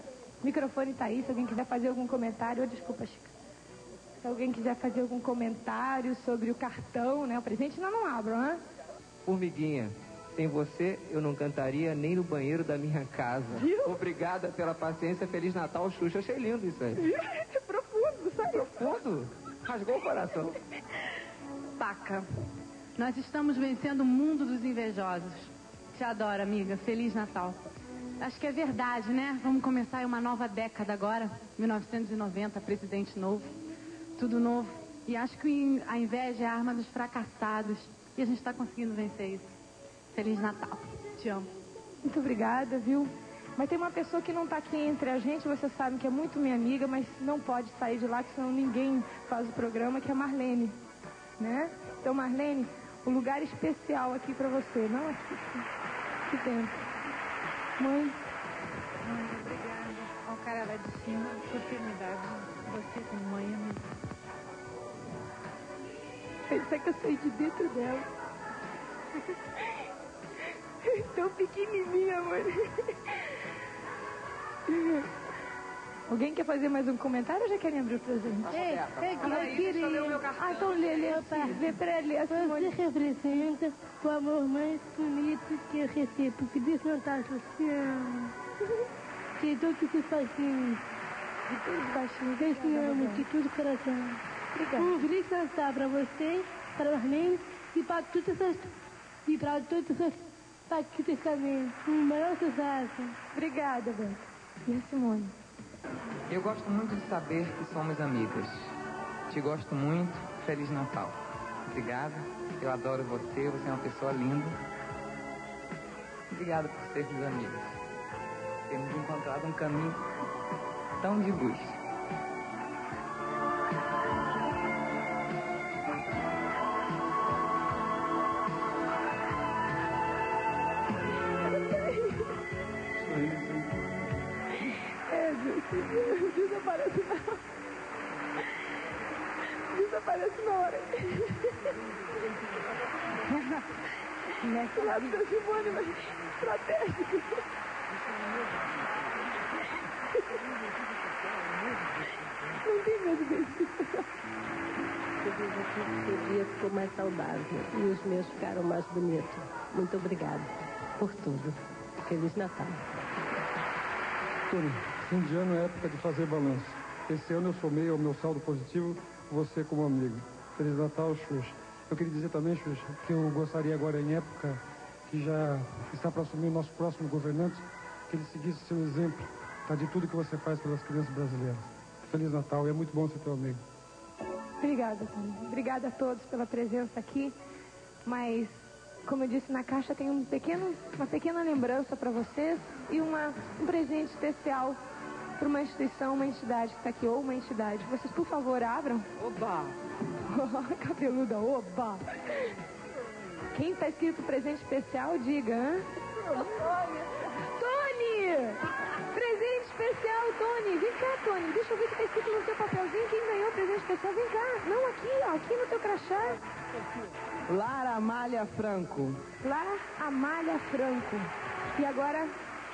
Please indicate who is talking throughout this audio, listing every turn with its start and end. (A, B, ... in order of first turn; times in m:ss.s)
0:00.4-0:03.3 A
0:04.2-0:08.6 A
0:09.2-0:17.0 B
0:13.6-0:14.0 A
0:17.0-0:19.0 A
0:18.5-0:20.6 B
0:21.8-0:22.2 C
0:23.0-0:27.6 C
0:28.2-0:33.6 C
0:34.2-0:39.5 C
0:40.1-0:41.5 C
0:42.0-0:50.8 A
0:51.4-0:55.7 A
0:56.3-0:56.8 A
0:57.8-0:58.2 A
0:59.2-1:03.8 D
1:06.5-1:08.0 A
1:10.8-1:13.3 A
1:14.7-1:15.0 A
1:16.1-1:18.6 A
1:18.5-1:21.7 E
1:18.5-1:20.6 C
1:19.1-1:22.8 A
1:22.2-1:28.3 E
1:29.4-1:30.8 E
1:31.5-1:33.2 A
1:32.4-1:34.2 E
1:34.5-1:34.9 A
1:34.8-1:38.7 E
1:39.2-1:43.2 E
1:43.3-1:45.3 A
1:46.3-1:48.7 F
1:49.3-1:51.2 F
1:51.7-1:54.6 F
1:56.3-1:57.8 F
1:58.7-2:00.0 F
2:01.0-2:01.8 F
2:11.5-2:12.4 A
2:13.1-2:13.5 G
2:14.7-2:17.4 A
2:19.7-2:21.7 A
2:24.4-2:25.1 C
2:24.6-2:27.4 A
2:32.5-2:34.0 A
2:35.2-2:42.8 H
2:44.5-3:03.6 G
3:04.6-3:07.3 A
3:08.0-3:08.5 A
3:09.0-3:14.8 A
3:15.4-3:19.1 A
3:20.3-3:22.5 A
3:23.5-3:26.7 A
3:27.3-3:36.4 A
3:37.5-3:39.1 B
3:39.4-3:42.3 A